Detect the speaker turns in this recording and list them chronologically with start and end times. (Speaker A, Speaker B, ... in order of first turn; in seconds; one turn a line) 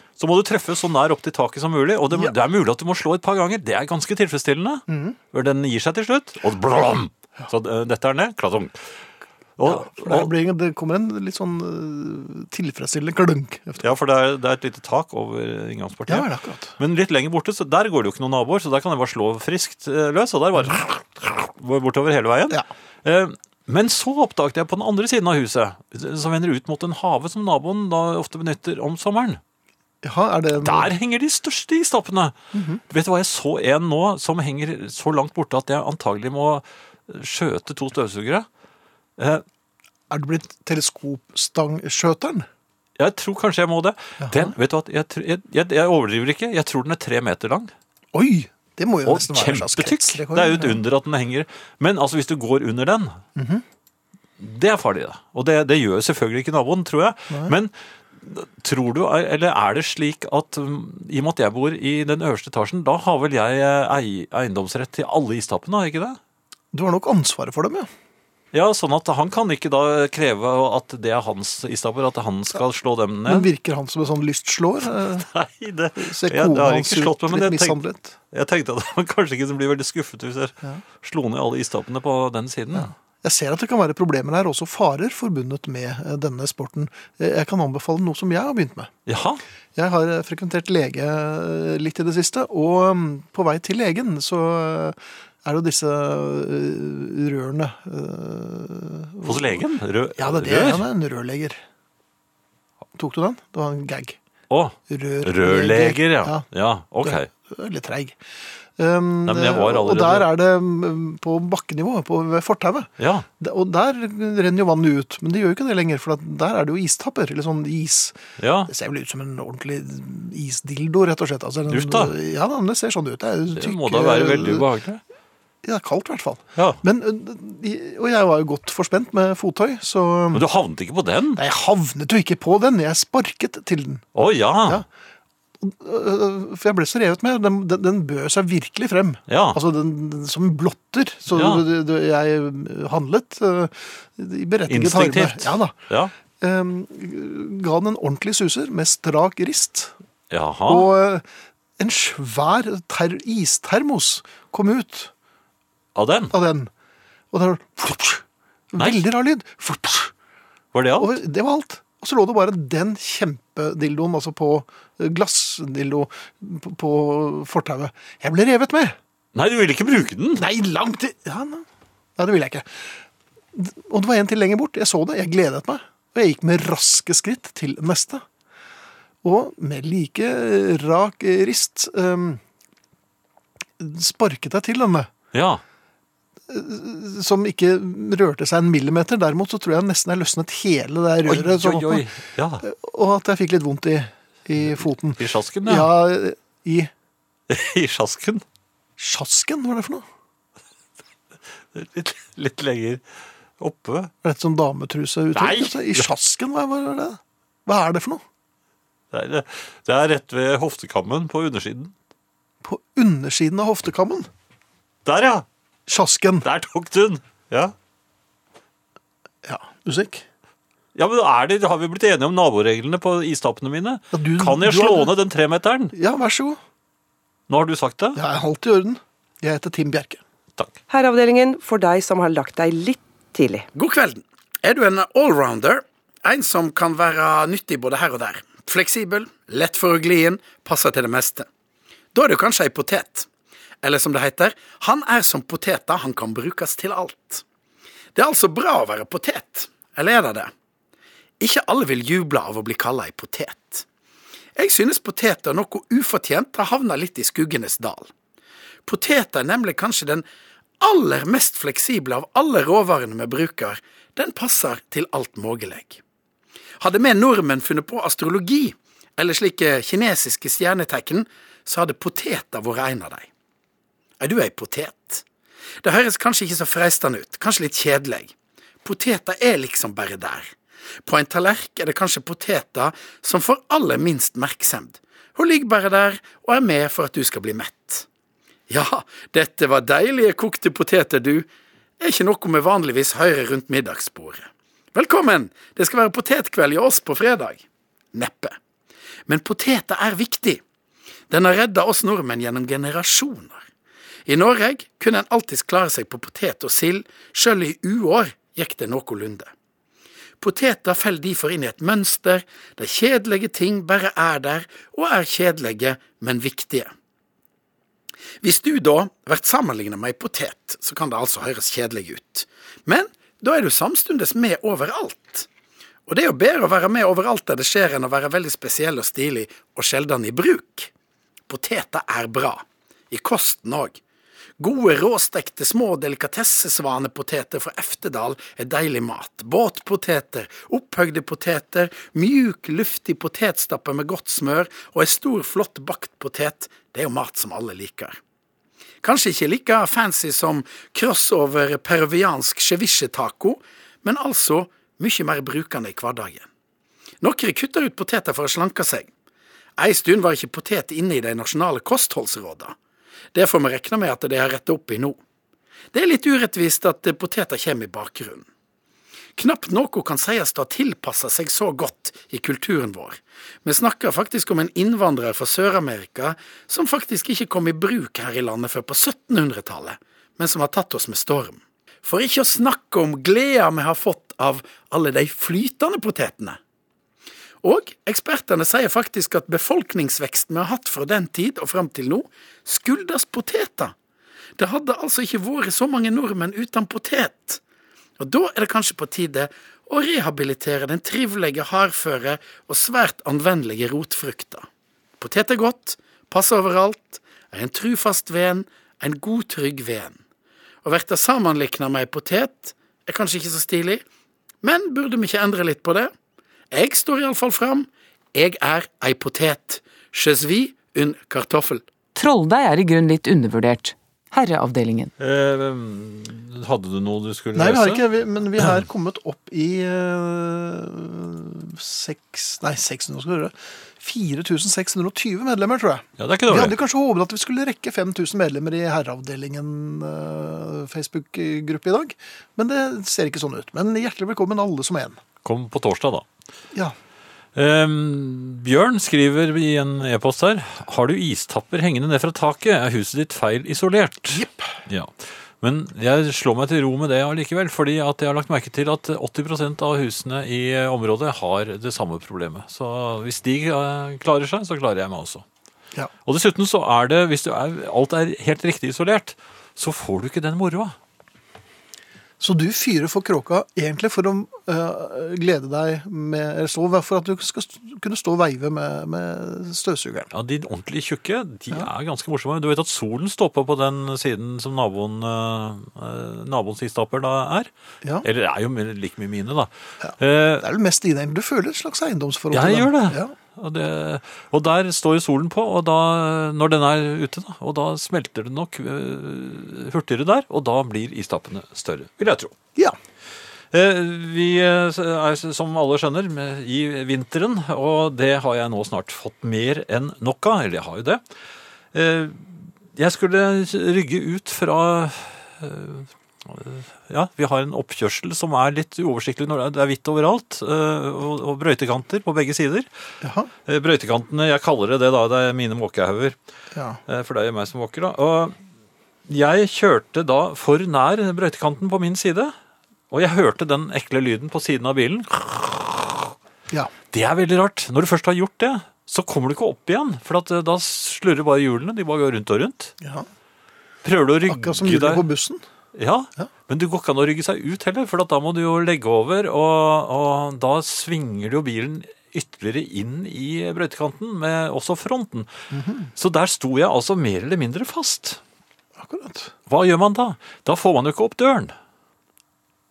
Speaker A: 0.2-8.8
Speaker B: 4.9-5.2
Speaker A: 9.6-10.3
Speaker B: 9.6-13.9
Speaker A: 13.8-29.4
Speaker B: 16.1-16.7
Speaker B: 30.0-30.9
Speaker A: 30.6-32.3
Speaker B: 32.5-32.8
Speaker A: 32.9-38.5
Speaker A: 39.2-39.4
Speaker B: 40.1-42.5
Speaker A: 43.0-47.7
Speaker B: 44.2-44.5
Speaker B: 48.1-50.8
Speaker A: 49.0-53.2
Speaker B: 53.4-53.6
Speaker A: 54.4-66.2
Speaker B: 66.7-67.9
Speaker A: 68.5-73.5
Speaker B: 73.2-75.2
Speaker A: 75.2-77.8
Speaker B: 76.0-78.1
Speaker A: 78.3-82.9
Speaker B: 82.7-88.9
Speaker A: 89.1-89.4
Speaker B: 89.8-99.6
Speaker A: 99.2-100.8
Speaker B: 100.2-101.6
Speaker B: 103.0-104.2
Speaker A: 104.5-107.3
Speaker B: 104.9-106.4
Speaker B: 107.0-108.2
Speaker B: 108.8-112.9
Speaker A: 109.2-110.3
Speaker A: 113.0-113.3
Speaker B: 113.4-124.7
Speaker A: 118.4-118.7
Speaker A: 121.7-122.1
Speaker A: 123.5-125.0
Speaker B: 125.6-130.4
Speaker A: 126.5-126.8
Speaker A: 130.3-131.4
Speaker B: 131.3-134.0
Speaker A: 134.1-134.8
Speaker B: 135.6-145.7
Speaker A: 139.3-139.6
Speaker A: 141.3-141.6
Speaker A: 144.7-146.1
Speaker B: 146.4-149.9
Speaker A: 150.3-150.9
Speaker B: 150.7-151.2
Speaker B: 151.8-155.1
Speaker A: 155.9-156.3
Speaker B: 156.3-156.7
Speaker B: 157.3-160.1
Speaker A: 160.7-161.1
Speaker B: 161.0-169.0
Speaker A: 169.3-170.4
Speaker B: 170.3-171.6
Speaker B: 172.2-172.9
Speaker B: 173.5-178.2
Speaker B: 179.2-182.4
Speaker B: 183.8-185.1
Speaker A: 185.3-185.6
Speaker B: 186.5-192.1
Speaker A: 191.2-192.6
Speaker B: 192.6-196.9
Speaker A: 195.2-195.9
Speaker A: 197.5-198.4
Speaker B: 199.0-200.0
Speaker A: 201.7-203.0
Speaker A: 203.6-204.1
Speaker B: 204.2-208.2
Speaker A: 205.3-206.1
Speaker A: 209.1-211.9
Speaker B: 212.6-214.3
Speaker A: 215.0-215.4
Speaker B: 215.9-216.5
Speaker A: 216.4-217.7
Speaker B: 219.4-220.2
Speaker A: 220.9-225.9
Speaker B: 224.1-225.1
Speaker B: 225.9-226.6
Speaker A: 227.5-228.2
Speaker B: 228.1-230.2
Speaker C: 230.9-233.7
Speaker D: 233.7-241.5
Speaker D: 242.1-243.3
Speaker D: 243.8-247.4
Speaker D: 248.1-250.5
Speaker D: 251.4-253.8
Speaker D: 254.6-258.1
Speaker D: 258.9-260.2
Speaker D: 260.8-266.0
Speaker D: 266.8-273.3
Speaker D: 274.2-275.2
Speaker D: 275.8-278.3
Speaker D: 278.8-280.5
Speaker D: 281.0-288.1
Speaker D: 288.7-291.5
Speaker D: 292.0-297.6
Speaker D: 298.1-298.6
Speaker D: 299.3-300.6
Speaker D: 301.3-303.6
Speaker D: 304.2-309.5
Speaker D: 310.4-316.9
Speaker D: 318.4-325.5
Speaker D: 326.1-330.9
Speaker D: 331.5-334.0
Speaker D: 334.6-348.2
Speaker D: 349.0-356.5
Speaker D: 357.2-359.1
Speaker D: 359.8-362.7
Speaker D: 363.3-365.2
Speaker D: 365.9-368.4
Speaker D: 369.4-386.6
Speaker D: 387.6-393.9
Speaker D: 394.6-397.6
Speaker D: 398.2-404.6
Speaker D: 405.2-410.2
Speaker D: 410.8-414.0
Speaker D: 414.6-416.1
Speaker D: 416.7-421.8
Speaker E: 422.1-425.1
Speaker A: 425.2-428.0
Speaker B: 427.5-445.2
Speaker A: 436.2-436.8
Speaker A: 445.4-446.2
Speaker A: 447.5-465.4
Speaker B: 454.3-454.8
Speaker A: 466.2-470.9
Speaker B: 472.4-480.3
Speaker A: 480.3-487.7
Speaker A: 488.2-490.7
Speaker B: 490.0-493.3
Speaker A: 492.5-502.5
Speaker A: 503.7-511.2
Speaker A: 511.9-522.9
Speaker B: 523.2-523.5
Speaker A: 523.6-526.4
Speaker B: 526.7-527.0
Speaker A: 527.1-528.5
Speaker A: 529.3-532.5
Speaker A: 533.1-536.3
Speaker A: 537.1-542.9
Speaker B: 543.0-543.3
Speaker A: 544.0-545.2
Speaker B: 544.5-545.6
Speaker A: 545.9-555.5
Speaker B: 555.7-556.1
Speaker A: 556.2-558.4
Speaker B: 559.0-559.5
Speaker A: 559.7-561.7